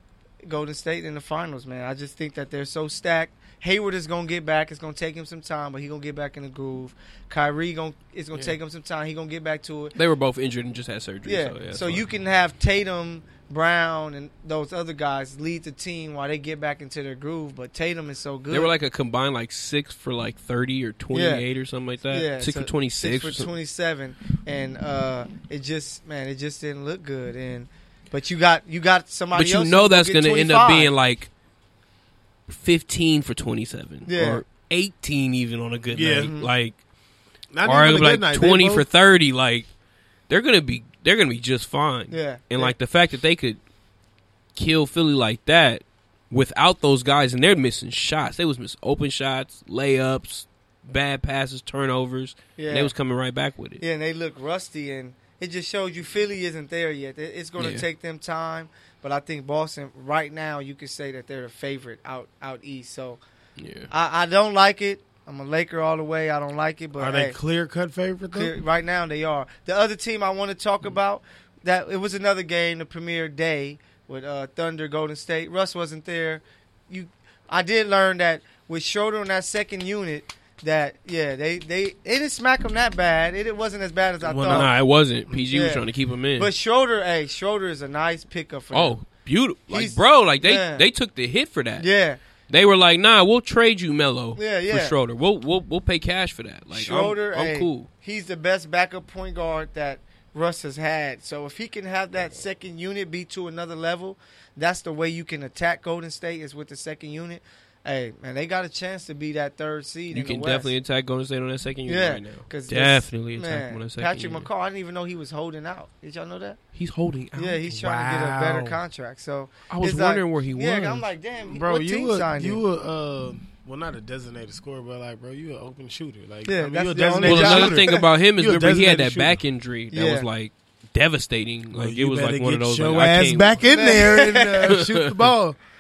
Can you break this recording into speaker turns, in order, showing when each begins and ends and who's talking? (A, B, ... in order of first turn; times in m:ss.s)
0:00.4-0:10.0 A
0:10.0-0:12.0 B
0:11.3-0:18.7 A
0:18.5-0:23.5 B
0:21.1-0:21.4 A
0:22.1-0:30.9 A
0:29.3-0:31.3 B
0:32.5-0:36.8 B
0:34.1-0:34.4 A
0:35.9-0:36.3 C
0:36.2-0:36.5 A
0:37.5-0:38.9 C
0:37.6-0:39.7 B
0:40.3-0:43.6 B
0:42.1-0:42.8 A
0:44.6-0:53.8 B
0:52.6-0:52.9 A
0:53.8-1:03.2 A
0:57.6-0:57.8 B
1:03.6-1:03.9 B
1:03.9-1:07.4 A
1:07.0-1:08.5 C
1:08.3-1:24.7 A
1:24.2-1:24.7 C
1:24.5-1:26.5 B
1:25.3-1:25.8 A
1:26.4-1:29.0 A
1:28.7-1:31.9 B
1:29.7-1:30.9 A
1:31.8-1:32.2 A
1:32.5-1:37.9 B
1:34.4-1:35.0 A
1:36.7-1:50.7 A
1:50.1-1:54.5 B
1:51.9-1:56.6 A
1:56.8-1:57.6 B
1:57.4-2:02.6 A
1:57.7-1:58.8 C
1:59.7-2:01.0 B
2:01.5-2:09.4 C
2:06.5-2:08.0 A
2:07.2-2:13.6 B
2:09.9-2:10.3 A
2:11.7-2:15.6 C
2:13.7-2:14.8 A
2:14.6-2:15.2 B